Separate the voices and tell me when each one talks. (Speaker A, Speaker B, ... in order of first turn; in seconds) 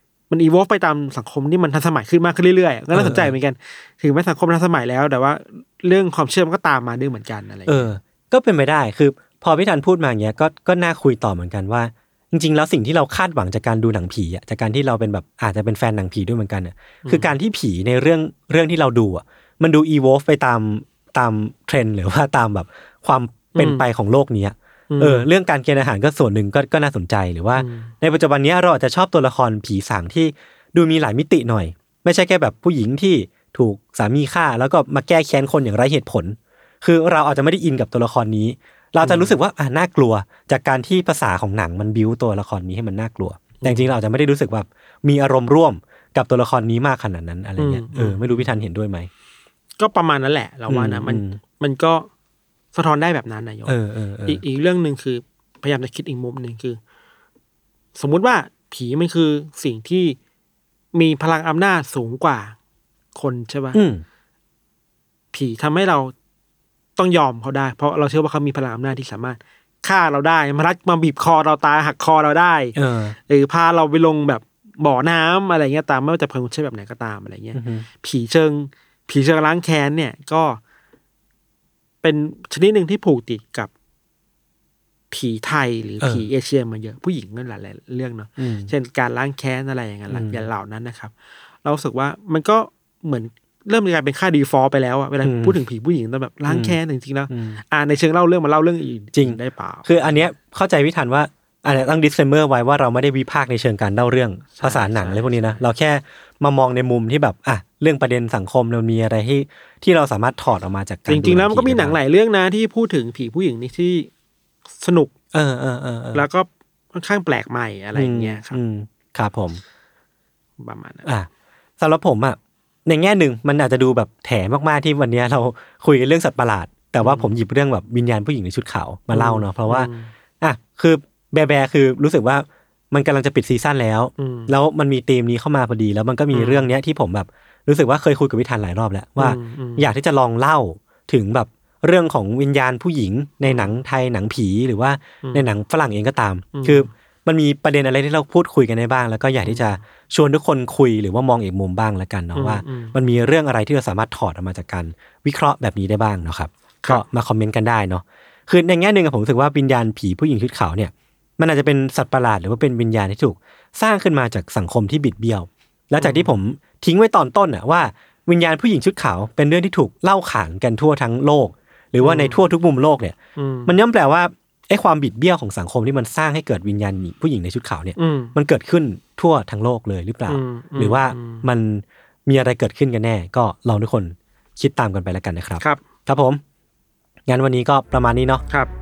Speaker A: 0.3-7.9, 17.1-17.3, 23.6-23.9, 24.9-25.3, 27.6-27.9, 39.0-39.4, 43.6-43.9, 47.6-48.5, 49.8-52.1, 52.7-53.7, 54.3-56.8, 58.0-60.2, 60.9-62.6, 63.1-63.8, 65.3-66.1, 67.0-72.8, 73.3-80.6, 82.0-83.7, 85.1-91.1, 91.6-100.2, 104.6-105.6, 111.1-114.1, 114.8-115.1, 116.1-118.6, 120.6-121.1, 127.0-127.3, 129.1-130.1, 134.2-134.5, 136.3-136.7, 139.2-139.9, 146.6-146.9, 149.4-149.8, 152.3-153.0, 166.0-166.3, 172.0-172.4, 173.4-173.8, 178.0-178.3, 180.3-181.5
Speaker B: 2.9-3.4, 7.7-49.1, 50.7-51.4, 53.7-54.4, 63.7-64.0, 72.8-73.2, 77.5-77.9, 88.4-88.7, 90.1-90.4, 95.2-95.5, 96.5-96.8, 97.3-97.6, 99.1-112.0, 115.3-116.3, 118.0-119.6, 121.8-129.9, 130.4-186.4, 187.3-188.4